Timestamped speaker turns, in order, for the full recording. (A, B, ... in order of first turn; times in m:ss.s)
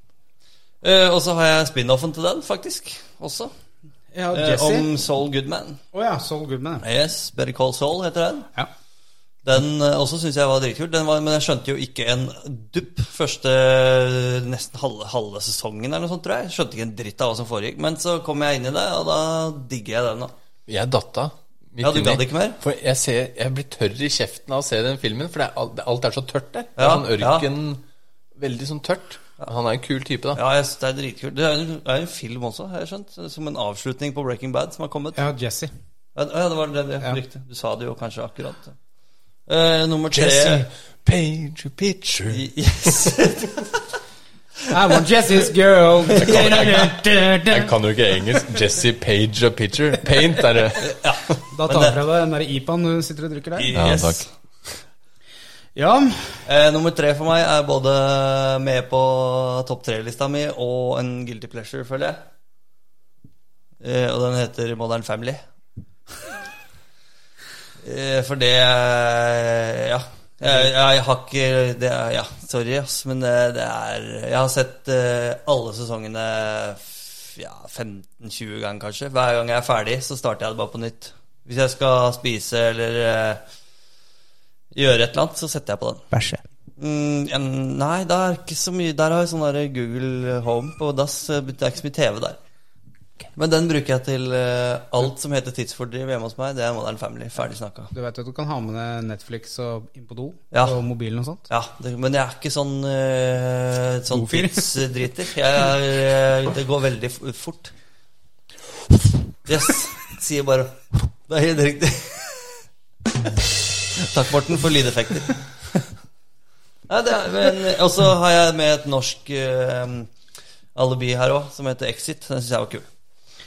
0:00.8-0:03.5 A
0:04.1-0:04.9 B
0:04.3-0:05.8 A
0:05.9-0:06.8 B
0:06.8-0:08.5 A
0:09.4-0:20.3 A
0:20.7-0:27.8 C
0:21.8-0:22.6 A
0:26.8-0:27.5 A
0:28.4-0:30.4 C
0:30.3-0:35.2 A
0:35.2-0:35.7 B
0:36.1-0:38.7 A
0:39.5-0:40.6 A
0:40.1-0:42.5 C
0:42.3-0:43.8 A
0:44.7-0:47.7 B
0:46.2-0:46.6 A
0:46.2-0:46.9 C
0:47.5-0:51.0 C
0:50.8-0:52.0 A
0:51.5-0:53.7 B
0:53.6-0:54.2 A
0:53.7-0:54.3 C
0:55.8-0:56.4 B
0:56.4-1:02.2 A
1:03.8-1:05.4 A
1:07.8-1:23.4 A
1:24.7-1:26.0 A
1:26.1-1:26.4 B
1:26.8-1:32.4 A
1:33.4-1:37.9 A
1:37.9-1:41.4 B
1:40.5-1:40.8 A
1:41.5-1:47.7 A
1:44.1-1:44.7 B
1:49.4-1:52.6 A
1:53.9-1:55.8 A
1:56.9-2:00.1 A
2:00.7-2:02.9 A